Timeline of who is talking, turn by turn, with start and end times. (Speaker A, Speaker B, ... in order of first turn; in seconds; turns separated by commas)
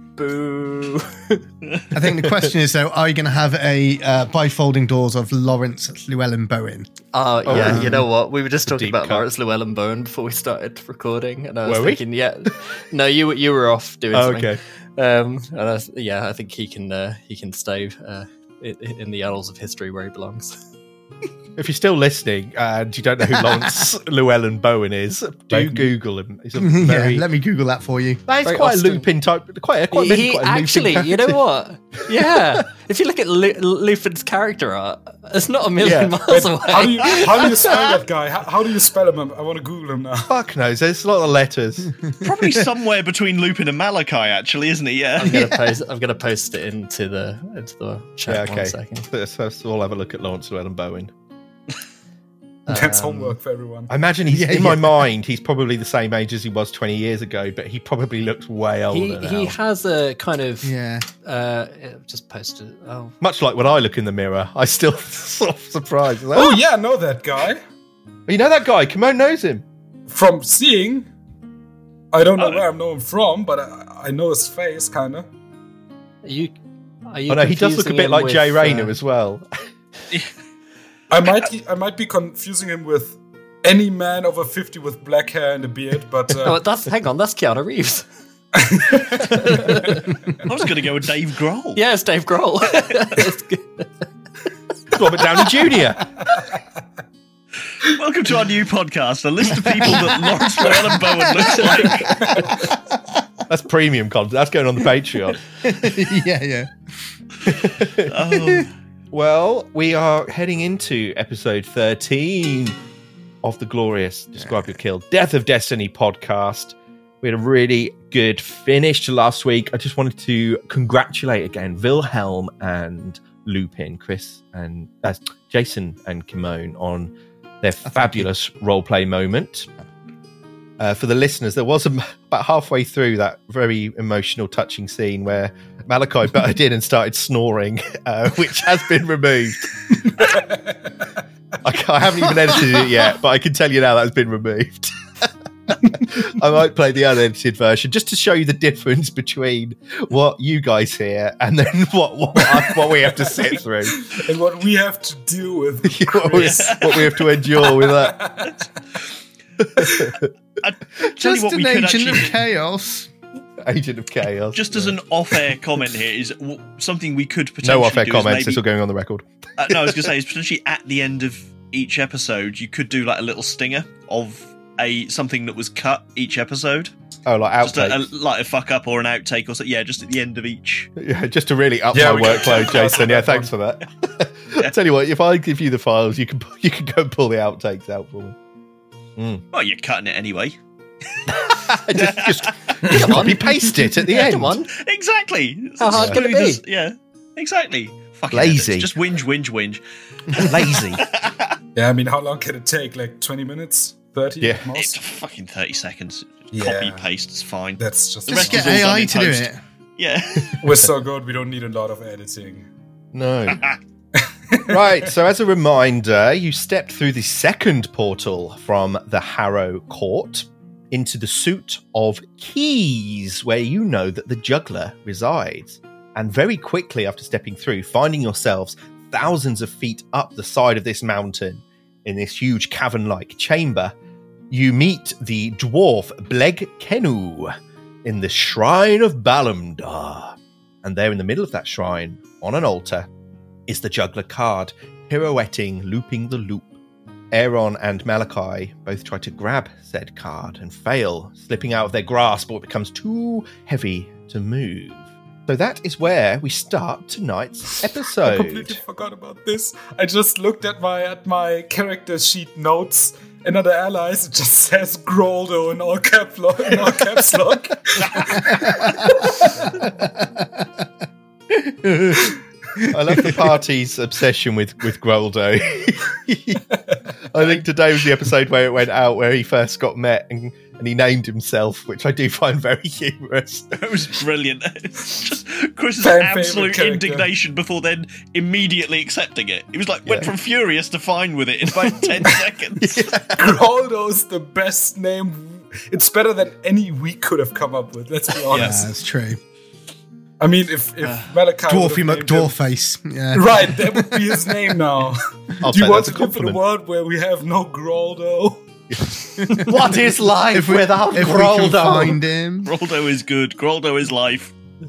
Speaker A: 0.2-1.4, Speaker B: 1.9-6.9, Speaker C: 2.2-2.5, Speaker A: 7.1-20.6, Speaker B: 7.5-8.1, Speaker C: 7.5-8.1, Speaker C: 8.7-9.3, Speaker C: 11.7-12.0, Speaker C: 14.1-14.6, Speaker C: 21.6-27.2, Speaker D: 25.5-25.9, Speaker B: 26.6-28.2, Speaker C: 28.3-31.4, Speaker A: 28.4-29.1, Speaker A: 29.9-38.0, Speaker C: 35.8-36.2, Speaker D: 36.3-40.3, Speaker C: 40.2-42.0, Speaker E: 42.2-45.5, Speaker A: 45.2-49.1, Speaker B: 45.2-45.8, Speaker C: 48.2-51.1, Speaker A: 52.7-53.4, Speaker D: 52.7-53.9, Speaker C: 53.9-59.6, Speaker B: 54.3-55.0, Speaker A: 58.9-63.1, Speaker B: 60.6-61.1, Speaker C: 63.2-66.6, Speaker D: 66.3-67.6, Speaker C: 68.3-69.7, Speaker D: 70.1-71.1, Speaker D: 72.1-75.3, Speaker E: 72.4-72.6, Speaker A: 76.2-76.5, Speaker A: 77.1-79.0, Speaker C: 77.3-79.5, Speaker D: 81.1-86.6, Speaker A: 86.4-88.1, Speaker D: 88.5-90.4, Speaker A: 89.1-90.5, Speaker E: 90.4-91.8, Speaker A: 91.8-93.9, Speaker C: 94.9-96.1, Speaker D: 96.3-96.6, Speaker E: 97.8-102.5, Speaker D: 101.8-102.7, Speaker C: 103.5-105.4, Speaker B: 105.6-106.7, Speaker B: 107.5-108.7, Speaker C: 107.6-108.1, Speaker E: 108.1-108.7, Speaker C: 109.1-112.8, Speaker C: 113.4-129.7, Speaker C: 130.8-140.3, Speaker D: 140.2-140.8, Speaker C: 141.6-145.0, Speaker C: 145.9-154.1, Speaker D: 152.6-158.6, Speaker C: 155.8-158.2, Speaker E: 156.4-157.2, Speaker C: 159.6-160.3, Speaker E: 160.6-162.4, Speaker B: 161.2-163.1, Speaker C: 163.6-165.0, Speaker E: 164.6-168.6, Speaker C: 167.6-170.0, Speaker E: 169.6-176.9, Speaker C: 177.2-178.0, Speaker E: 177.6-180.9, Speaker C: 181.0-188.4, Speaker D: 181.9-183.5, Speaker C: 189.2-189.4, Speaker E: 189.5-190.6, Speaker E: 191.3-192.8, Speaker C: 191.3-194.6, Speaker A: 192.8-194.7, Speaker E: 194.7-201.6, Speaker A: 195.8-196.6, Speaker C: 195.9-196.2, Speaker C: 198.3-198.9, Speaker C: 200.3-201.1, Speaker D: 201.8-205.0, Speaker C: 204.4-204.7, Speaker E: 204.7-210.6, Speaker D: 206.5-207.1, Speaker D: 207.8-208.9, Speaker B: 208.3-209.6, Speaker D: 210.6-212.7, Speaker C: 213.1-213.6, Speaker E: 213.5-213.8, Speaker D: 214.2-215.0, Speaker C: 214.7-233.9, Speaker C: 234.5-243.1, Speaker C: 243.7-246.8, Speaker C: 247.3-258.8, Speaker D: 258.2-269.6, Speaker B: 268.6-269.1, Speaker B: 269.8-270.7, Speaker B: 271.7-273.3, Speaker C: 272.9-276.6, Speaker D: 276.7-277.0, Speaker C: 277.3-283.8, Speaker E: 283.7-293.1, Speaker D: 286.0-287.3, Speaker C: 290.1-290.3, Speaker C: 292.8-293.5, Speaker D: 293.4-298.9, Speaker E: 298.5-298.8, Speaker B: 298.5-299.4, Speaker D: 300.4-302.6, Speaker E: 301.0-301.3, Speaker B: 301.7-304.4, Speaker D: 303.3-308.6, Speaker C: 305.6-306.6, Speaker C: 308.9-312.2, Speaker B: 309.4-309.7, Speaker B: 310.5-312.7, Speaker E: 312.6-314.5